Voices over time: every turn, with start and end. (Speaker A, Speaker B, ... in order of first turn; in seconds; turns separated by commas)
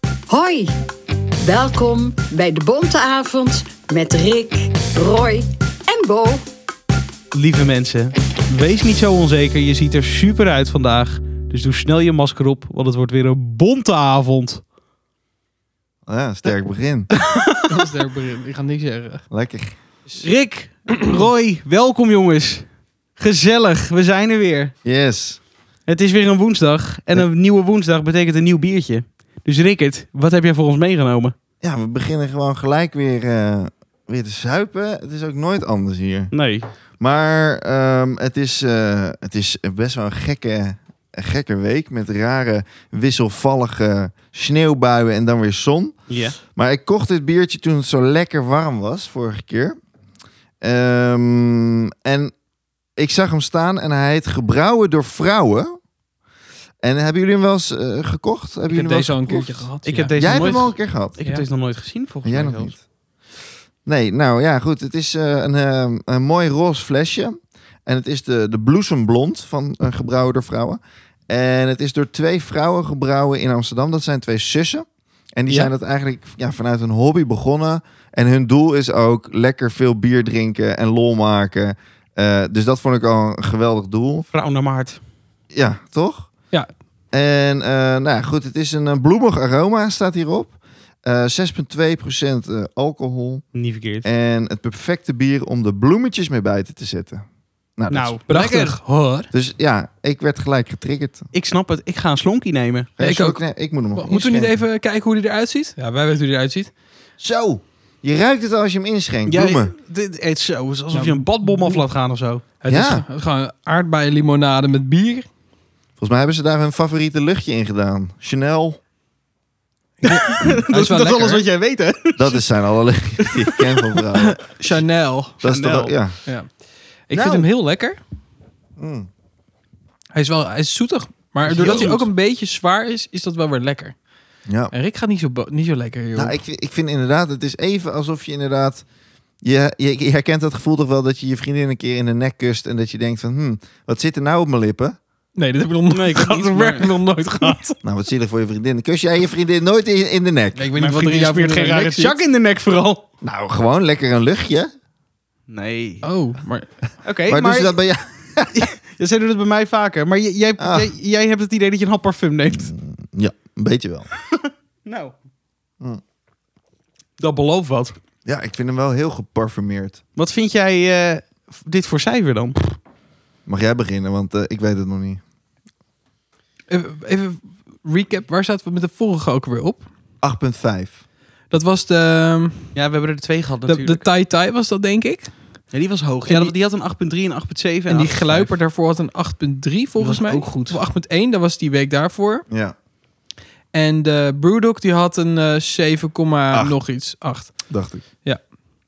Speaker A: 0.3-0.7, Speaker A: 1.4-6.5, Speaker B: 7.3-14.6, Speaker C: 16.1-17.1, Speaker B: 17.2-17.9, Speaker D: 17.7-19.2, Speaker C: 19.3-19.7, Speaker B: 20.2-22.6, Speaker B: 23.2-24.7, Speaker C: 24.8-25.4, Speaker B: 25.9-31.3, Speaker C: 31.6-36.3, Speaker B: 36.3-36.7, Speaker C: 37.0-49.8, Speaker B: 46.1-46.4, Speaker C: 50.6-52.3, Speaker C: 53.0-55.8, Speaker C: 56.8-61.1, Speaker D: 58.7-60.7, Speaker B: 59.8-62.7, Speaker C: 62.2-62.8, Speaker C: 63.8-84.3, Speaker B: 84.3-85.0, Speaker C: 85.5-86.3, Speaker C: 87.1-93.5, Speaker B: 93.5-94.0, Speaker C: 94.0-97.2, Speaker C: 97.8-98.2, Speaker B: 97.9-98.8, Speaker D: 98.3-99.3, Speaker C: 99.3-101.3, Speaker B: 101.3-102.9, Speaker C: 103.0-104.5, Speaker D: 103.0-106.7, Speaker C: 107.2-109.7, Speaker B: 109.3-112.4, Speaker D: 110.9-111.8, Speaker D: 112.6-115.2, Speaker C: 112.7-113.0, Speaker C: 116.0-118.8, Speaker D: 120.0-121.4, Speaker B: 120.0-122.4, Speaker C: 122.2-124.4, Speaker B: 123.2-124.4, Speaker D: 124.6-125.4, Speaker C: 125.4-126.2, Speaker B: 125.4-125.9, Speaker D: 126.2-126.5, Speaker D: 127.1-128.0, Speaker C: 127.1-127.5, Speaker C: 128.8-129.1, Speaker D: 130.1-133.9, Speaker B: 131.4-132.1, Speaker C: 131.6-132.0, Speaker C: 134.5-134.7, Speaker D: 134.7-136.4, Speaker C: 136.1-138.8, Speaker C: 139.4-145.0, Speaker D: 145.3-147.8, Speaker B: 145.9-147.6, Speaker C: 147.8-150.6, Speaker D: 150.6-152.2, Speaker B: 150.8-153.0, Speaker C: 153.2-154.7, Speaker B: 155.5-156.1, Speaker D: 156.0-156.7, Speaker B: 157.0-157.7, Speaker C: 157.3-158.6, Speaker B: 158.5-162.7, Speaker C: 160.6-160.9, Speaker C: 162.6-164.1, Speaker B: 164.3-165.1, Speaker B: 167.2-167.9, Speaker C: 168.2-170.0, Speaker B: 170.2-172.8, Speaker C: 173.4-175.2, Speaker D: 176.7-179.8, Speaker C: 180.2-181.0, Speaker D: 181.5-182.7, Speaker B: 182.7-184.0, Speaker D: 183.7-185.3, Speaker B: 185.7-188.3, Speaker D: 186.3-186.5, Speaker D: 187.9-192.4, Speaker B: 190.0-190.8, Speaker C: 192.5-192.7, Speaker D: 193.7-197.7, Speaker C: 197.7-198.0